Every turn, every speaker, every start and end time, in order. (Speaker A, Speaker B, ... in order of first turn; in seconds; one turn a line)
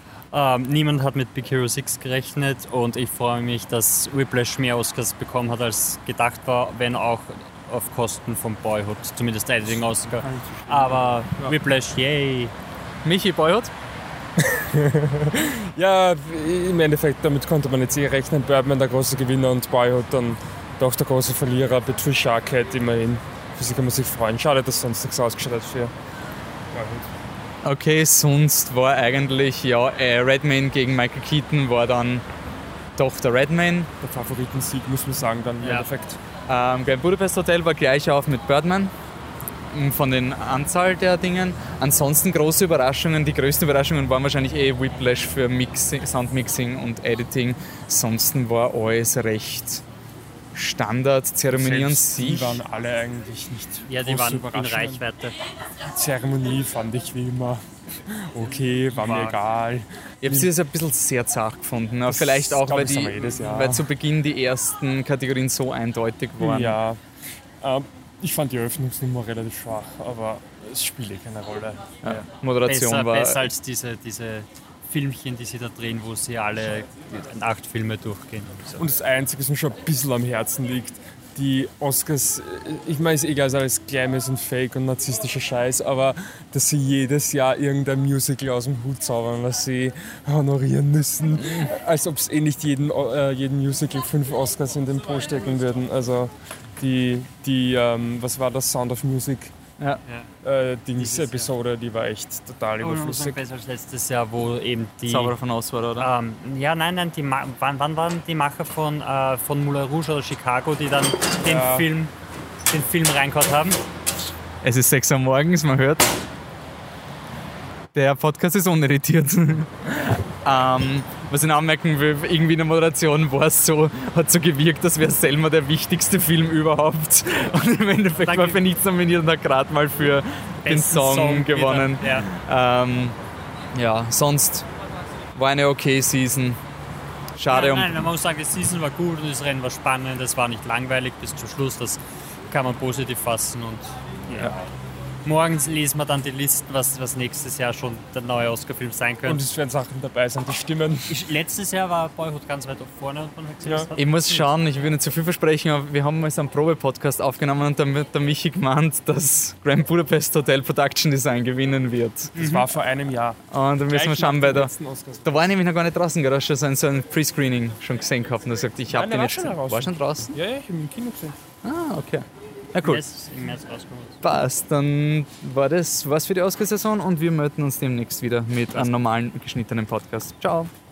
Speaker A: 0.3-12.5
Speaker B: 10.2-11.6
Speaker C: 13.0-13.7
Speaker B: 14.4-25.9
Speaker B: 26.7-27.1
Speaker C: 27.6-32.2
Speaker C: 33.0-33.9
Speaker B: 34.0-36.2
Speaker A: 35.6-35.9
Speaker C: 36.5-38.9
Speaker C: 39.7-49.8
Speaker C: 50.5-52.6
Speaker B: 51.5-55.0
Speaker A: 53.9-55.3
Speaker B: 55.9-60.5
Speaker A: 58.9-59.4
Speaker C: 60.2-66.8
Speaker B: 62.0-63.9
Speaker B: 66.4-67.0
Speaker B: 67.6-71.8
Speaker C: 72.0-73.5
Speaker A: 72.7-78.8
Speaker B: 78.8-99.5
Speaker B: 100.4-103.4
Speaker A: 101.0-101.5
Speaker A: 102.8-105.3
Speaker C: 105.0-106.1
Speaker A: 106.0-112.1
Speaker B: 111.4-111.9
Speaker A: 112.7-113.8
Speaker C: 114.6-116.1
Speaker C: 117.9-133.2
Speaker A: 128.1-128.6
Speaker A: 130.6-132.3
Speaker C: 133.7-134.7
Speaker C: 135.3-136.6
Speaker C: 137.3-138.1
Speaker A: 137.5-144.6
Speaker A: 145.2-149.4
Speaker B: 149.2-151.2
Speaker A: 151.1-154.5
Speaker B: 153.6-153.9
Speaker C: 154.0-162.3
Speaker A: 162.3-162.7
Speaker B: 162.3-165.6
Speaker C: 163.5-164.7
Speaker C: 165.2-170.3
Speaker B: 168.9-171.3
Speaker C: 171.6-173.0
Speaker A: 172.8-174.2
Speaker C: 174.2-180.7